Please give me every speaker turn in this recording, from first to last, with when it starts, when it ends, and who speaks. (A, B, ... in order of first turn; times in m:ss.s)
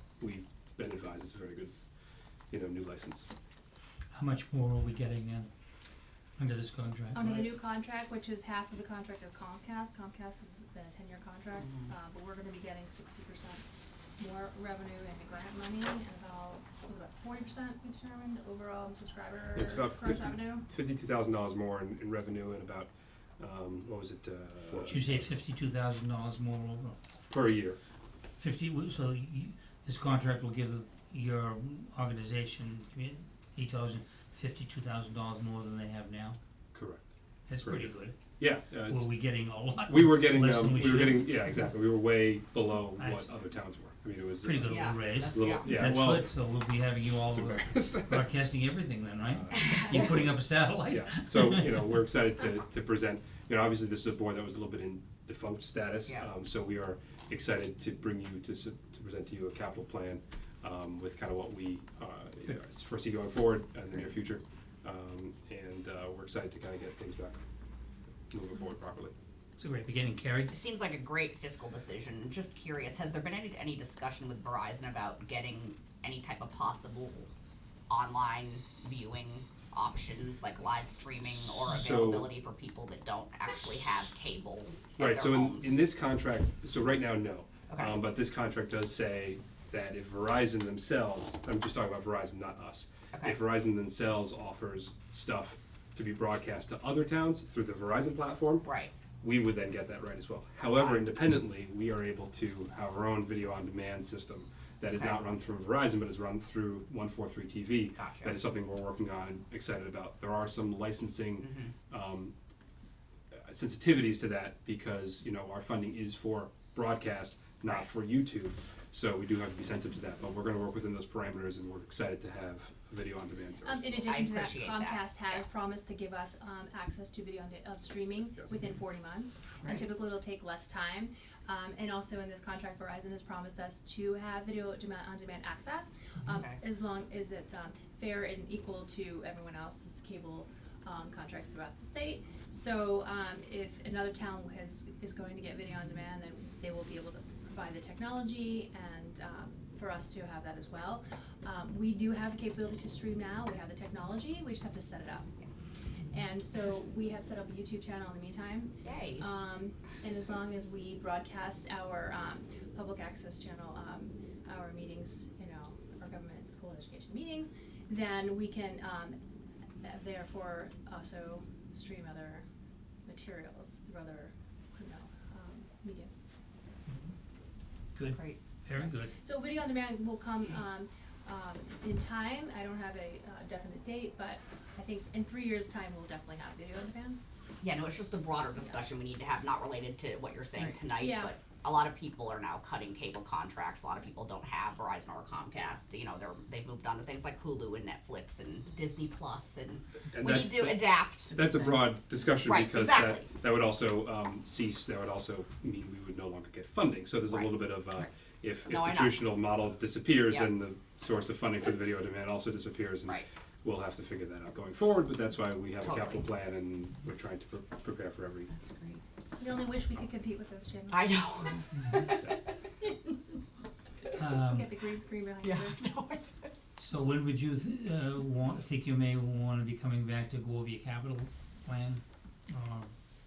0:00.2-0:01.8 A
0:02.5-0:03.3 A
0:04.1-0:05.5 B
0:06.4-0:07.3 B
0:07.2-0:13.6 C
0:07.2-0:07.5 A
0:14.2-0:20.6 C
0:19.6-0:25.3 A
0:24.8-0:27.1 B
0:27.3-0:27.8 A
0:28.4-0:36.4 B
0:36.7-0:39.1 A
0:37.5-0:38.2 B
0:38.8-0:41.7 B
0:39.9-0:46.3 A
0:43.0-0:43.3 B
0:44.4-0:51.9 B
0:44.7-0:45.8 D
0:47.2-0:48.2 A
0:49.3-0:50.3 A
0:50.9-1:07.4 A
1:08.3-1:09.1 A
1:09.6-1:10.5 B
1:10.5-1:17.3 D
1:17.9-1:25.8 D
1:21.6-1:22.3 A
1:25.0-1:38.7 A
1:27.7-1:27.9 D
1:38.6-1:38.9 D
1:39.2-1:52.4 A
1:44.9-1:45.2 D
1:48.0-1:48.3 D
1:51.4-1:51.7 D
1:53.4-2:04.2 A
2:03.6-2:35.3 C
2:04.0-2:05.4 D
2:09.6-2:09.9 D
2:16.3-2:16.6 D
2:36.1-2:49.2 C
2:38.8-2:39.3 D
2:49.8-2:52.4 C
2:53.0-2:56.2 C
2:56.9-2:57.2 B
2:58.0-2:59.1 B
2:59.2-3:07.2 C
3:07.6-3:21.5 D
3:11.0-3:11.3 C
3:20.1-3:38.5 A
3:22.4-3:23.3 D
3:28.7-3:29.3 D
3:35.8-3:36.3 D
3:38.5-3:39.0 D
3:39.4-3:41.2 C
3:40.9-3:42.4 D
3:44.2-3:44.7 B
3:44.4-3:45.9 C
3:45.4-3:46.5 D
3:46.8-3:52.9 B